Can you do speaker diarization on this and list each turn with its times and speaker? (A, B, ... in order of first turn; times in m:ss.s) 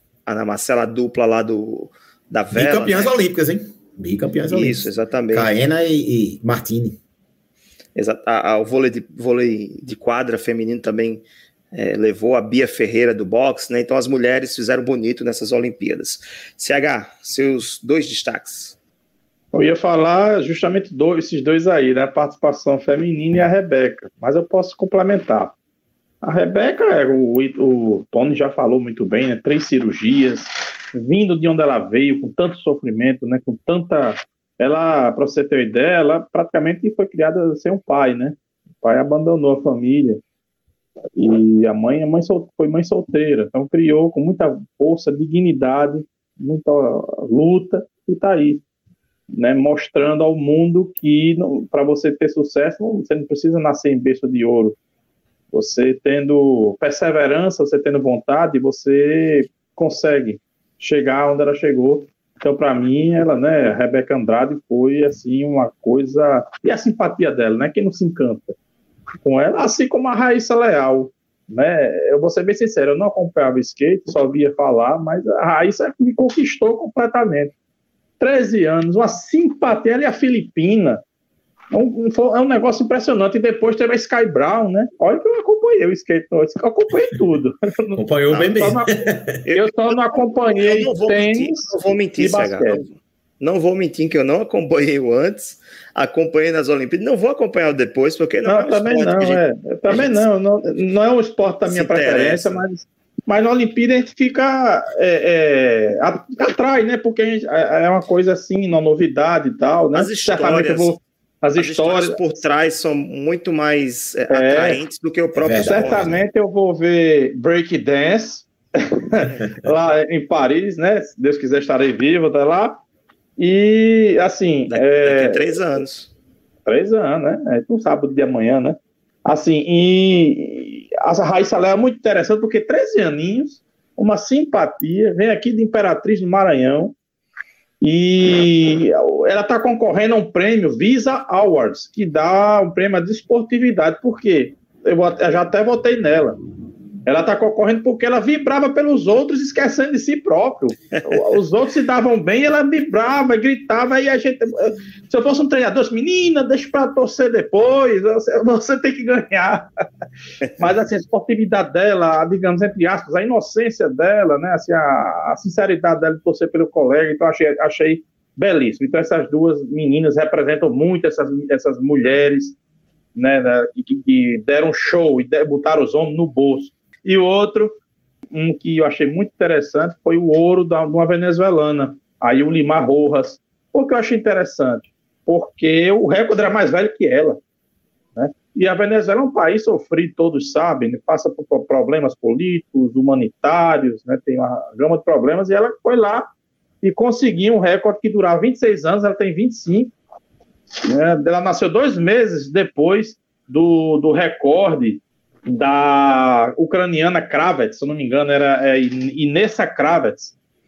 0:00.3-0:03.2 A
0:02.5-0:07.0 B
0:04.5-0:05.5 A
0:08.0-0:18.8 A
0:19.5-0:25.5 C
0:26.2-0:40.2 C
0:41.2-0:48.6 C
0:49.4-0:54.8 C
0:55.5-1:08.6 C
1:09.2-1:17.5 C
1:18.2-1:21.0 C
1:21.7-1:28.0 C
1:28.0-1:29.4 B
1:28.6-1:28.9 C
1:29.4-1:40.2 A
1:29.5-1:32.8 C
1:38.5-1:52.3 C
1:41.7-1:42.6 A
1:50.0-1:51.0 A
1:51.6-1:56.2 A
1:54.3-1:54.8 C
1:55.4-1:56.1 B
1:55.5-2:02.8 C
2:03.4-2:05.6 C
2:04.7-2:06.1 A
2:06.7-2:17.0 C
2:17.8-2:26.4 C
2:27.1-2:39.7 C
2:30.9-2:31.2 A
2:40.6-2:52.6 C
2:53.2-2:57.7 C
2:58.3-3:07.4 C
3:08.2-3:16.3 C
3:16.8-3:19.9 C
3:20.8-3:30.4 C